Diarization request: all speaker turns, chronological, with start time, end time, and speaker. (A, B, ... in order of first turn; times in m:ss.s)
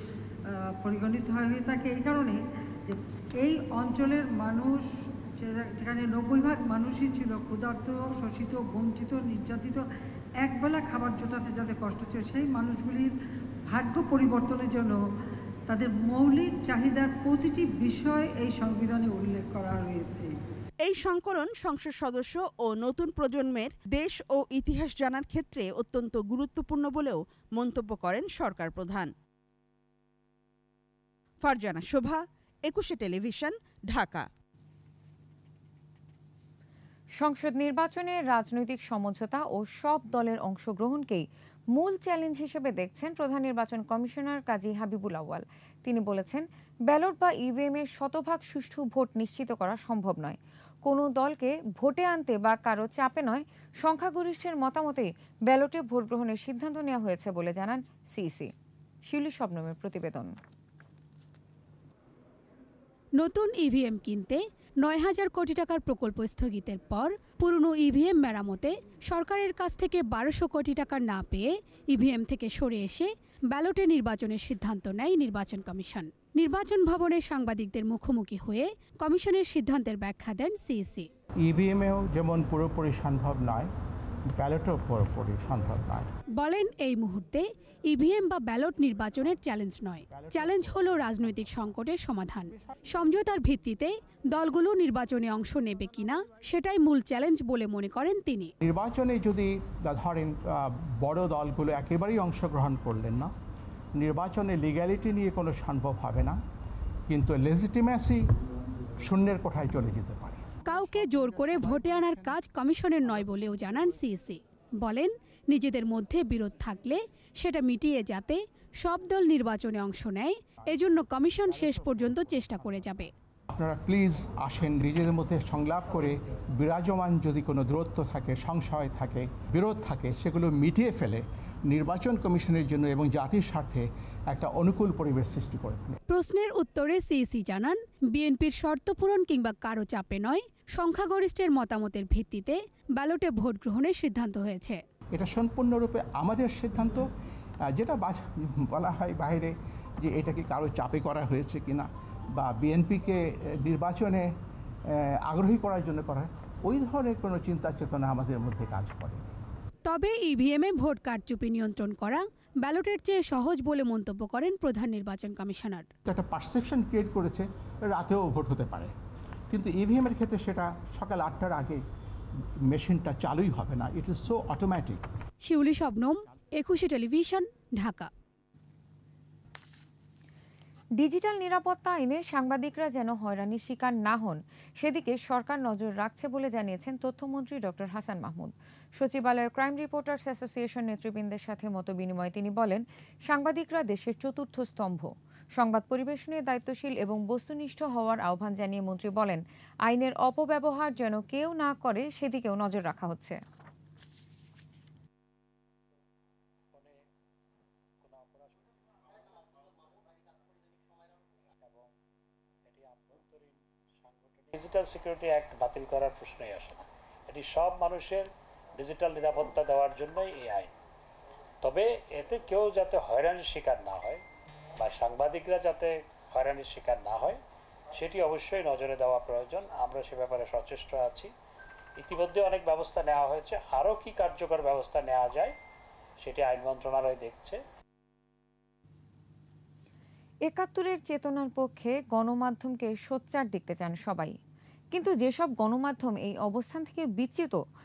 0:00.4-0:09.9 A
0:10.4-0:13.1 A
0:13.7-0:15.0 A
0:15.7-0:20.3 A
0:20.8-0:29.1 B
0:31.4-0:34.2 B
0:37.2-0:58.5 C
0:59.1-1:00.3 C
1:03.2-1:21.1 D
1:21.4-1:23.7 E
1:24.4-1:26.1 E
1:26.4-1:38.5 D
1:30.1-1:31.5 E
1:38.6-1:43.3 E
1:44.0-1:46.4 E
1:47.1-1:48.2 E
1:49.0-1:52.4 E
1:50.7-2:03.1 D
1:53.3-1:53.6 E
2:01.6-2:02.2 E
2:03.5-2:16.0 E
2:16.1-2:24.8 D
2:25.1-2:27.1 E
2:27.7-2:34.3 E
2:34.9-2:39.2 E
2:39.9-2:45.9 D
2:46.1-2:48.9 E
2:49.5-2:51.8 E
2:52.7-2:55.0 E
2:55.4-2:58.1 D
3:01.0-3:23.4 C
3:28.0-3:28.7 F
3:31.6-3:31.9 F
3:32.7-3:40.7 F
3:41.6-3:44.2 F
3:44.8-3:47.4 F
3:47.9-3:51.3 F
3:52.0-3:55.5 F
3:56.2-3:57.6 F
4:00.5-4:04.3 C
4:04.9-4:07.6 C